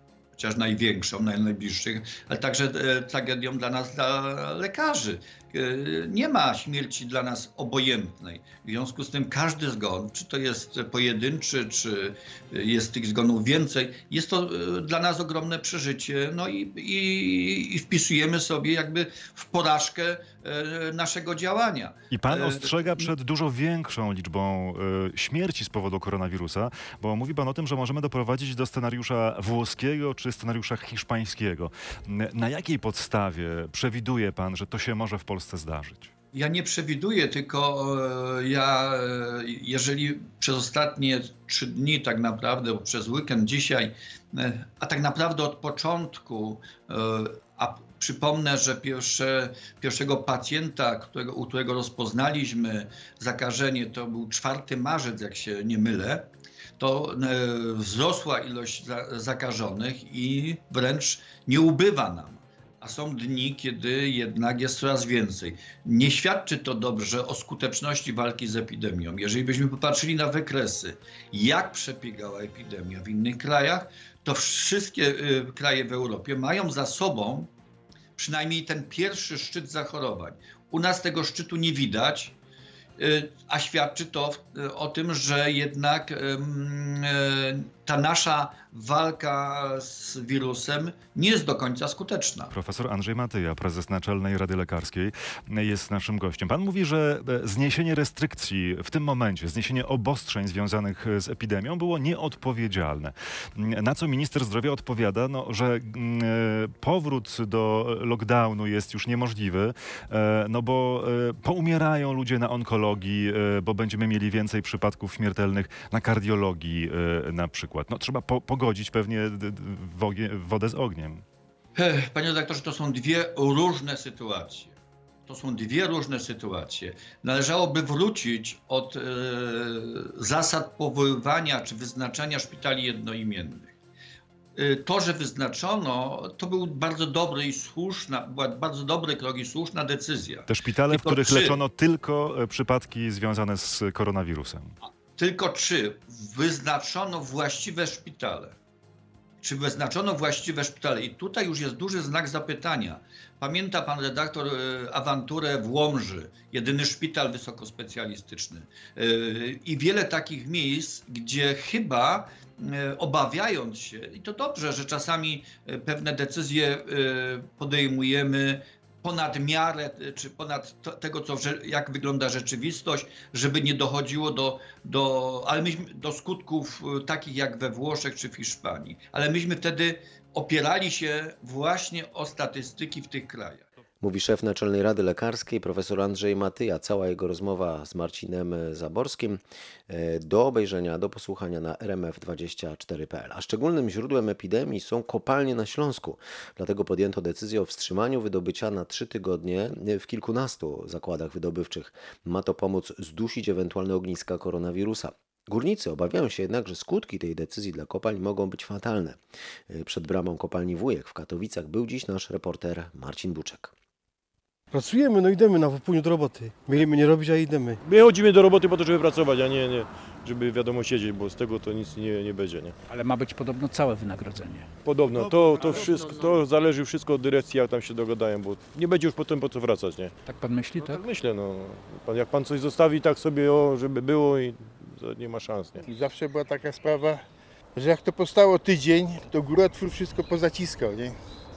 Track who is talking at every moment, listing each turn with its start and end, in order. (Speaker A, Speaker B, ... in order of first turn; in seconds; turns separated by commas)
Speaker A: 0.3-23.1, Speaker B: 22.1-36.1, Speaker A: 36.3-56.2, Speaker A: 56.8-77.5, Speaker A: 78.2-82.3, Speaker A: 83.0-92.5, Speaker B: 92.5-121.2, Speaker A: 121.8-124.7, Speaker A: 125.3-133.7, Speaker A: 134.6-141.6, Speaker B: 140.5-144.7, Speaker A: 145.2-148.5, Speaker A: 149.4-183.7, Speaker C: 184.0-213.7, Speaker D: 214.7-217.8, Speaker E: 217.8-222.8, Speaker F: 222.9-224.7, Speaker E: 224.8-230.2, Speaker F: 225.5-226.1, Speaker F: 230.2-231.0, Speaker E: 230.7-235.8, Speaker G: 235.8-237.2, Speaker G: 237.7-241.2